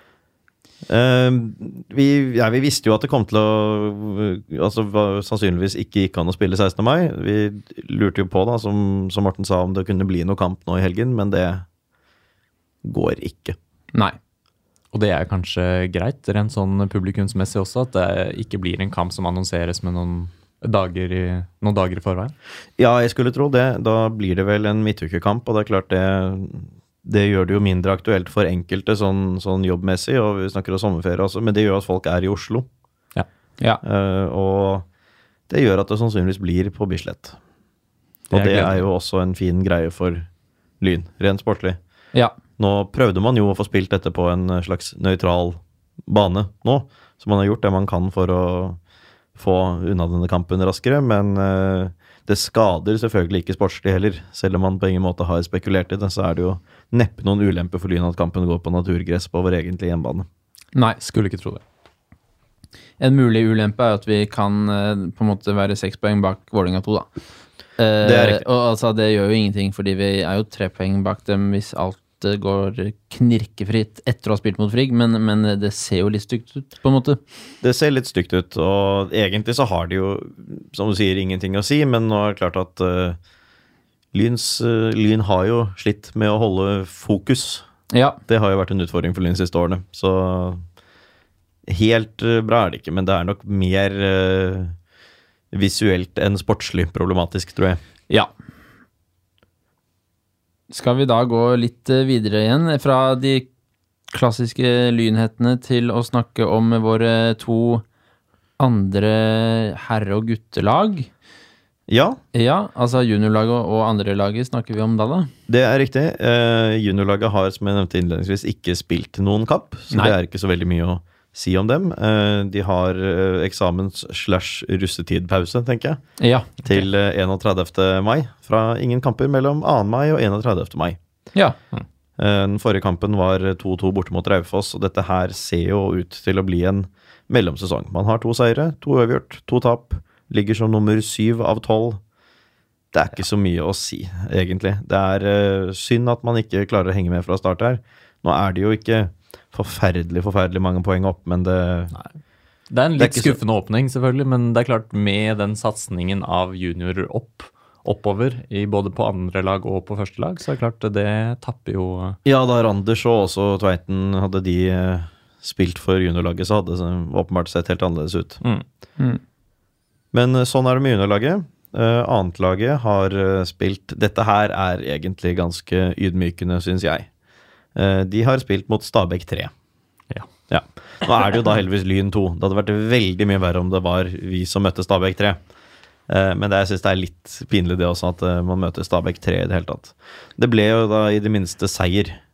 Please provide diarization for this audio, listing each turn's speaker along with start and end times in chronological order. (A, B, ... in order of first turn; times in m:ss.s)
0:00.9-0:11.6 A
0:12.8-0:13.6 A
0:14.9-0:22.3 B
0:22.8-0:32.7 A
0:33.8-0:34.9 A
0:35.5-0:37.4 A
0:38.3-0:40.3 A
0:38.3-0:38.8 B
0:40.8-0:41.8 A
0:42.6-0:48.8 A
0:49.4-1:00.2 A
1:01.0-1:01.6 B
1:03.0-1:07.1 C
1:07.8-1:17.2 C
1:08.0-1:08.4 A
1:17.6-1:23.2 A
1:24.1-1:27.6 A
1:27.9-1:28.2 C
1:28.3-1:30.6 A
1:31.7-1:34.8 A
1:35.5-1:37.8 A
1:40.7-1:43.5 C
1:44.1-1:47.8 C
1:48.6-1:51.1 C
1:51.9-1:52.2 A
1:52.3-1:55.3 C
1:55.5-2:06.0 A
2:06.2-2:06.6 C
2:06.6-2:11.0 A
2:12.2-2:22.0 A
2:22.9-2:31.9 A
2:32.7-2:42.2 B
2:33.0-2:33.4 A
2:42.2-2:48.4 A
2:50.1-2:57.1 A
2:57.7-2:59.5 A
3:00.5-3:05.4 A
3:06.1-3:12.2 A